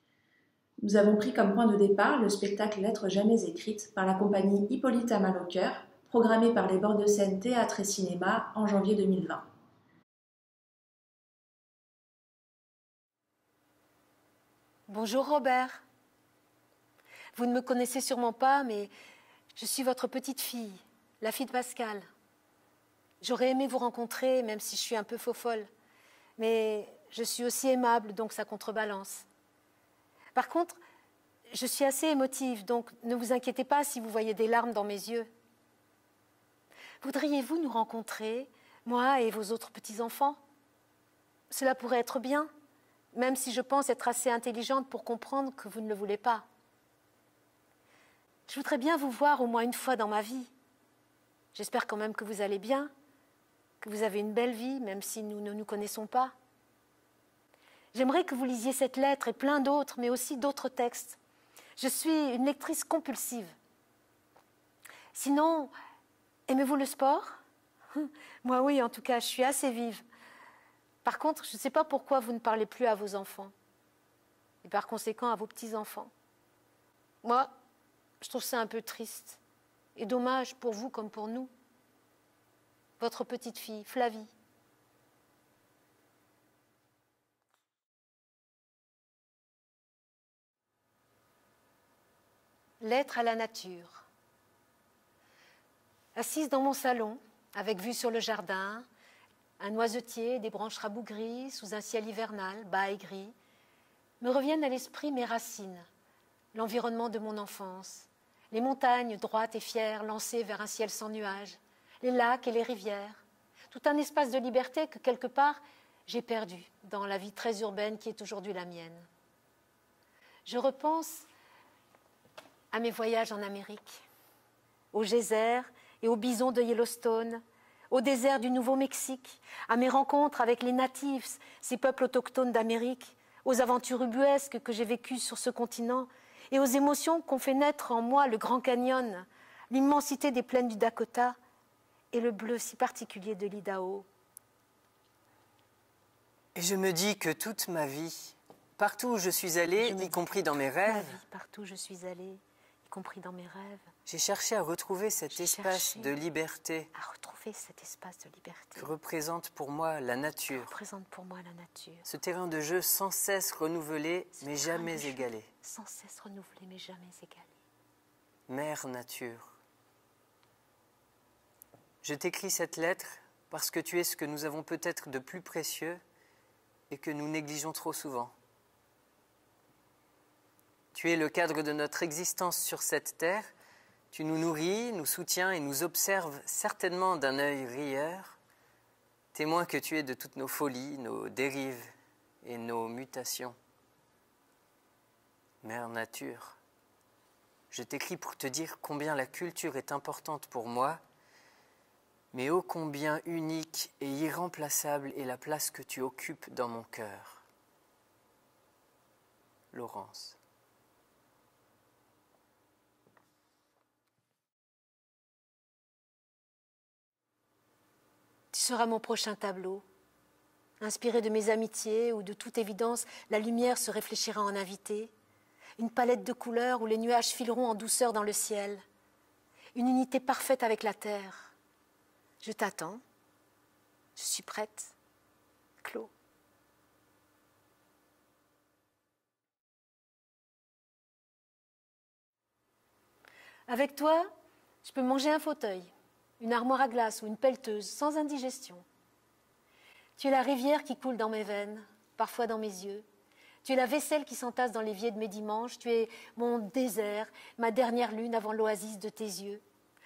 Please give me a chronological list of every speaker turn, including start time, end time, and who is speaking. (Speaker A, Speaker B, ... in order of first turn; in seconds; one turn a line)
Speaker A: 0.8-9.4
Speaker B: 14.9-15.8
Speaker B: 17.3-18.9
Speaker B: 19.5-22.1
Speaker B: 23.2-25.7
Speaker B: 26.4-29.2
Speaker B: 30.4-30.8
Speaker B: 31.5-35.3
Speaker B: 37.0-40.4
Speaker B: 41.5-42.5
Speaker B: 43.1-46.5
Speaker B: 48.5-50.5
Speaker B: 51.5-52.9
Speaker B: 53.8-56.3
Speaker B: 57.9-61.2
Speaker B: 61.8-63.5
Speaker B: 65.1-65.7
Speaker B: 66.5-67.4
Speaker B: 67.9-70.0
Speaker B: 71.0-73.5
Speaker B: 74.6-76.1
Speaker B: 77.2-77.5
Speaker B: 78.2-79.4
Speaker B: 80.0-81.5
Speaker B: 83.0-84.3
Speaker B: 92.8-94.0
Speaker B: 96.2-98.8
Speaker B: 99.6-103.3
Speaker B: 104.2-105.8
Speaker B: 106.5-119.1
Speaker B: 120.5-121.3
Speaker B: 122.7-124.0
Speaker B: 124.9-141.3
Speaker B: 142.1-144.1
Speaker C: 146.5-151.2
Speaker B: 149.8-153.9
Speaker C: 154.1-156.9
Speaker B: 155.3-156.2
Speaker B: 156.9-158.9
Speaker C: 158.8-160.7
Speaker B: 160.5-162.1
Speaker C: 162.1-165.5
Speaker B: 164.4-167.5
Speaker C: 168.5-169.5
Speaker C: 172.0-176.0
Speaker C: 176.9-178.3
Speaker C: 180.9-183.5
Speaker C: 184.1-188.4
Speaker C: 189.3-191.9
Speaker C: 192.4-193.5
Speaker C: 195.6-196.6
Speaker C: 197.7-201.0
Speaker C: 202.3-207.4
Speaker C: 209.7-210.4
Speaker B: 218.5-219.8
Speaker B: 220.8-225.1
Speaker B: 225.8-228.8
Speaker B: 229.7-231.5
Speaker B: 232.4-233.0
Speaker B: 234.2-234.9
Speaker B: 235.8-236.1
Speaker B: 243.7-244.3
Speaker B: 244.8-248.8
Speaker B: 250.2-253.1
Speaker B: 253.6-259.6